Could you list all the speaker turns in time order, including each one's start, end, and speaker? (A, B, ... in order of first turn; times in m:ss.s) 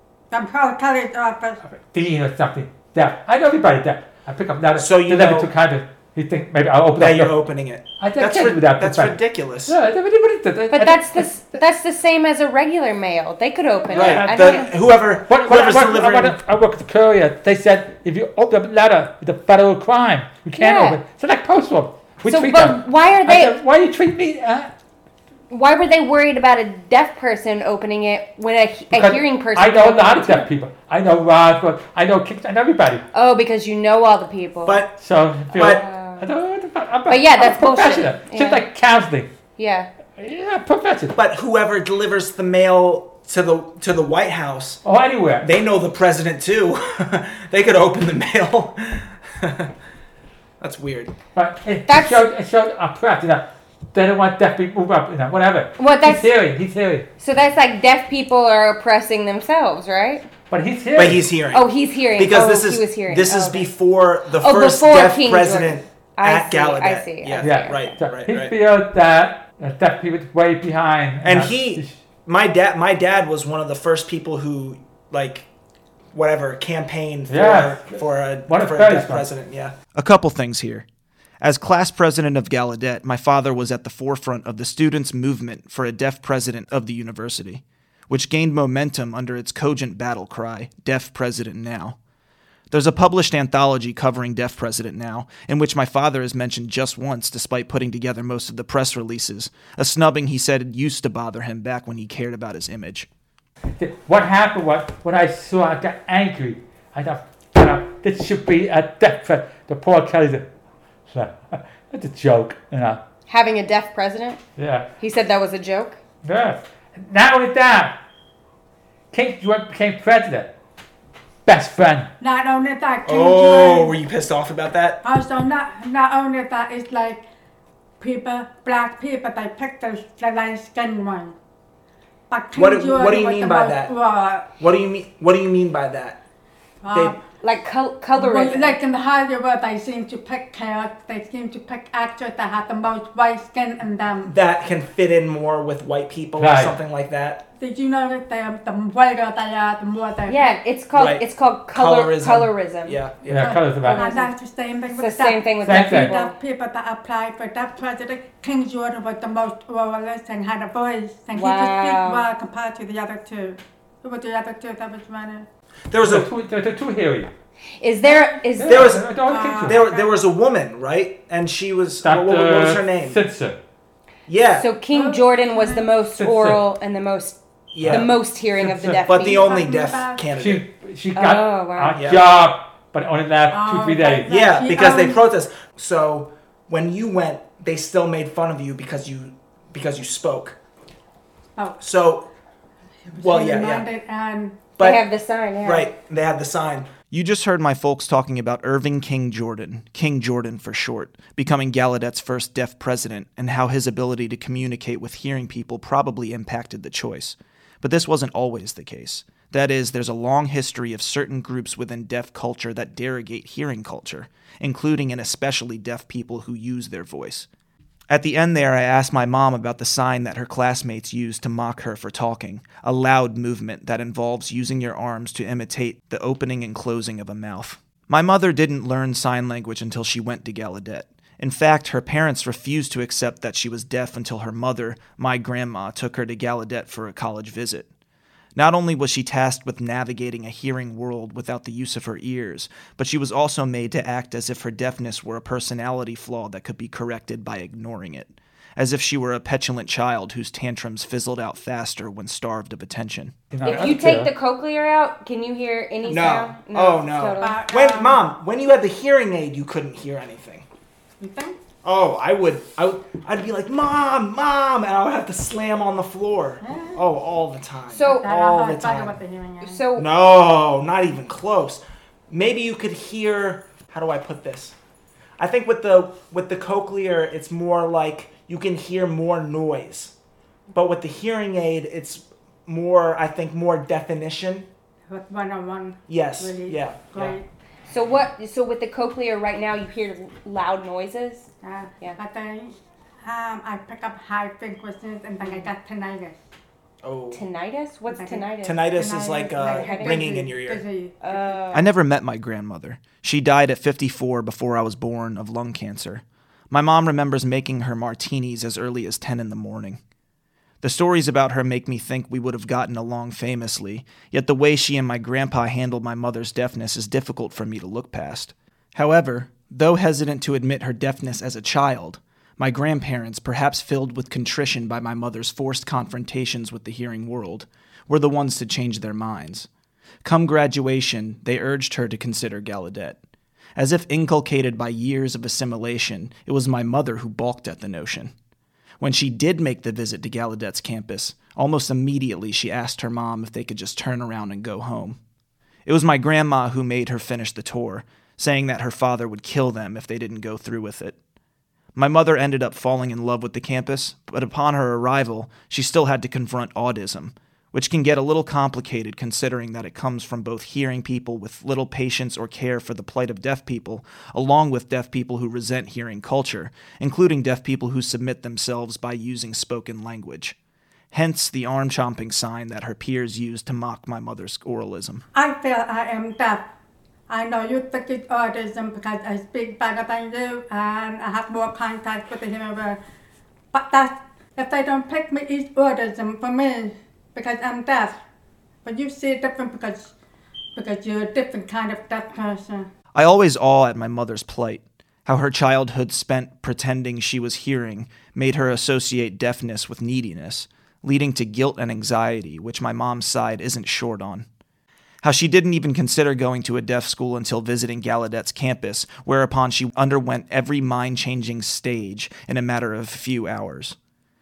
0:00.3-0:01.6 A
0:01.7-0:07.4 B
0:04.8-0:05.5 C
0:07.0-0:09.8 C
0:08.0-0:11.3 B
0:10.7-0:14.7 D
0:13.9-0:24.7 B
0:13.9-0:16.4 C
0:20.5-0:21.0 D
0:22.3-0:23.6 D
0:25.5-0:30.5 D
0:28.9-0:33.0 B
0:33.1-0:34.8 D
0:34.6-0:35.0 C
0:35.0-0:39.3 B
0:35.5-0:35.8 C
0:35.6-0:36.3 D
0:37.1-0:38.6 D
0:39.6-0:39.9 D
0:40.2-0:41.1 B
0:41.1-0:44.8 C
0:44.8-0:45.5 B
0:45.4-0:49.7 C
0:50.6-0:51.1 C
0:51.4-0:57.1 B
0:51.9-0:52.2 D
0:55.8-0:56.3 D
0:57.2-1:00.3 D
1:00.5-1:01.3 B
1:00.9-1:08.5 C
1:01.5-1:03.7 D
1:04.3-1:07.9 D
1:07.4-1:12.0 B
1:11.2-1:15.5 C
1:16.1-1:19.8 C
1:17.3-1:19.2 B
1:19.9-1:20.9 E
1:21.4-1:32.0 E
1:32.7-1:43.1 E
1:43.8-1:50.5 B
1:51.1-1:53.0 B
1:53.3-1:54.4 D
1:54.6-1:54.9 B
1:55.0-1:56.0 D
1:56.2-1:58.0 B
1:59.1-2:00.5 B
2:01.5-2:02.1 B
2:02.2-2:04.0 A
2:03.0-2:05.0 C
2:05.0-2:07.2 A
2:08.0-2:11.4 A
2:12.3-2:14.5 A
2:12.5-2:13.9 C
2:14.6-2:16.2 C
2:16.8-2:17.2 A
2:17.4-2:18.8 D
2:18.1-2:24.3 A
2:24.2-2:27.5 C
2:26.4-2:26.8 B
2:27.6-2:30.5 A
2:30.3-2:33.0 D
2:30.9-2:33.6 C
2:33.3-2:34.1 B
2:33.4-2:45.5 A
2:33.8-2:34.3 D
2:34.9-2:36.3 D
2:35.6-2:36.1 B
2:41.3-2:42.3 D
2:45.9-2:46.3 C
2:46.0-2:47.3 B
2:47.8-2:49.0 D
2:48.1-2:48.4 A
2:48.6-2:49.8 B
2:48.6-2:53.2 C
2:49.2-2:50.1 A
2:52.0-2:53.6 B
2:54.3-2:54.7 C
2:54.5-2:59.5 D
2:54.9-2:55.9 A
2:56.2-2:56.6 B
2:57.7-2:58.1 C
2:57.8-2:58.1 B
2:58.6-2:59.0 B
2:58.9-3:00.6 C
2:59.2-3:00.2 A
3:00.3-3:04.3 B
3:01.1-3:02.0 D
3:01.9-3:02.2 C
3:03.5-3:05.2 A
3:04.3-3:10.6 C
3:11.8-3:12.3 C
3:13.1-3:14.6 A
3:13.2-3:13.9 C
3:14.8-3:15.0 C
3:14.8-3:15.9 D
3:15.6-3:16.9 C
3:17.1-3:37.5 E
3:38.1-3:57.9 E
3:58.6-4:13.3 E
4:13.5-4:14.3 B
4:13.6-4:17.6 D
4:16.1-4:20.6 C
4:17.4-4:18.2 A
4:21.2-4:21.6 A
4:21.8-4:29.2 C
4:26.6-4:27.0 A
4:27.9-4:28.3 D
4:28.0-4:29.8 A
4:29.6-4:30.1 D
4:30.0-4:34.8 C
4:35.4-4:40.1 C
4:40.7-4:44.7 C
4:45.1-4:47.4 A
4:46.1-4:47.4 C
4:47.9-4:51.5 D
4:51.6-4:56.4 A
4:55.4-4:55.7 D
4:57.0-4:57.4 C
4:57.3-4:58.9 D
4:58.1-5:01.6 A
4:58.6-5:00.8 C
4:59.6-5:00.4 D
5:01.2-5:01.9 D
5:01.7-5:10.0 E
5:10.8-5:29.7 E
5:30.2-5:33.2 E
5:33.8-5:38.3 E
5:39.0-5:45.2 E
5:45.9-5:51.2 E
5:51.9-6:10.6 E
6:11.1-6:15.2 E
6:15.3-6:16.6 A
6:17.3-6:23.0 A
6:23.7-6:28.2 A
6:28.8-6:30.1 A
6:30.8-6:32.9 A
6:33.1-6:44.5 E
6:45.2-6:54.0 E